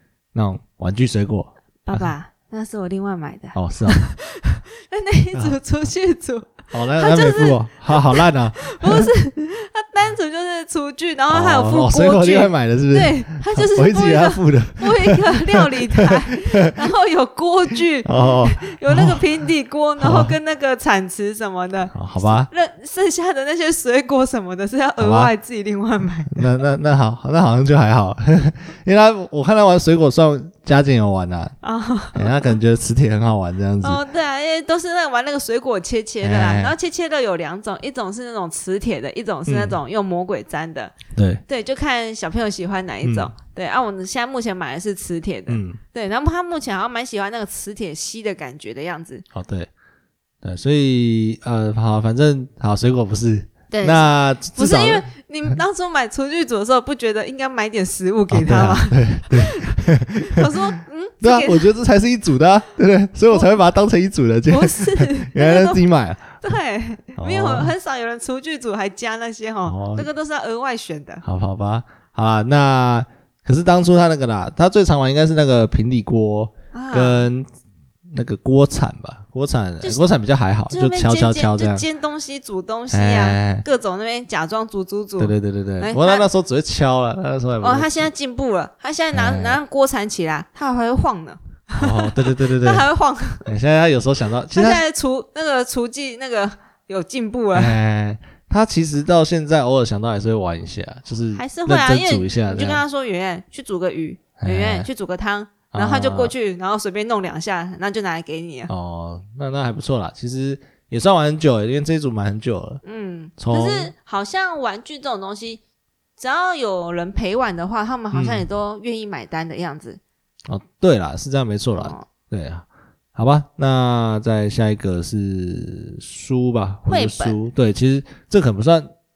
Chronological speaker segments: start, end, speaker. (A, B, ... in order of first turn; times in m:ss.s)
0:00.3-0:02.1 A
0:01.8-0:26.5 B
0:03.5-0:04.0 A
0:06.7-0:09.1 A
0:11.3-0:16.9 A
0:18.0-0:19.2 A
0:20.0-0:20.4 A
0:21.9-0:22.5 A
0:25.0-0:25.3 A
0:26.3-0:31.5 A
0:31.6-0:32.4 B
0:32.1-0:34.0 A
0:33.8-0:40.9 B
0:36.2-0:36.8 A
0:39.5-0:39.8 A
0:41.2-0:41.4 A
0:41.5-0:49.2 B
0:43.0-0:43.3 A
0:45.5-0:45.8 A
0:49.3-0:49.7 A
0:50.4-0:55.0 A
0:53.7-1:01.7 B
0:58.3-1:00.5 A
1:01.2-1:06.4 A
1:04.5-1:05.8 B
1:06.4-1:11.2 B
1:07.2-1:07.7 A
1:09.7-1:10.1 A
1:11.2-1:17.5 A
1:16.7-1:17.3 B
1:18.1-1:21.8 A
1:19.8-1:20.1 B
1:20.7-1:26.3 B
1:22.9-1:23.6 A
1:25.2-1:28.1 A
1:27.6-1:33.5 B
1:29.1-1:29.6 A
1:31.8-1:32.8 A
1:33.4-1:34.8 A
1:34.5-1:37.8 B
1:37.5-1:42.8 A
1:41.4-1:48.7 B
1:44.4-1:44.9 A
1:45.7-1:46.3 A
1:48.7-1:52.8 A
1:52.8-1:55.6 B
1:53.4-1:53.9 A
1:56.2-2:00.0 B
1:58.1-1:58.4 A
2:00.5-2:08.9 A
2:01.8-2:02.0 B
2:06.9-2:07.4 B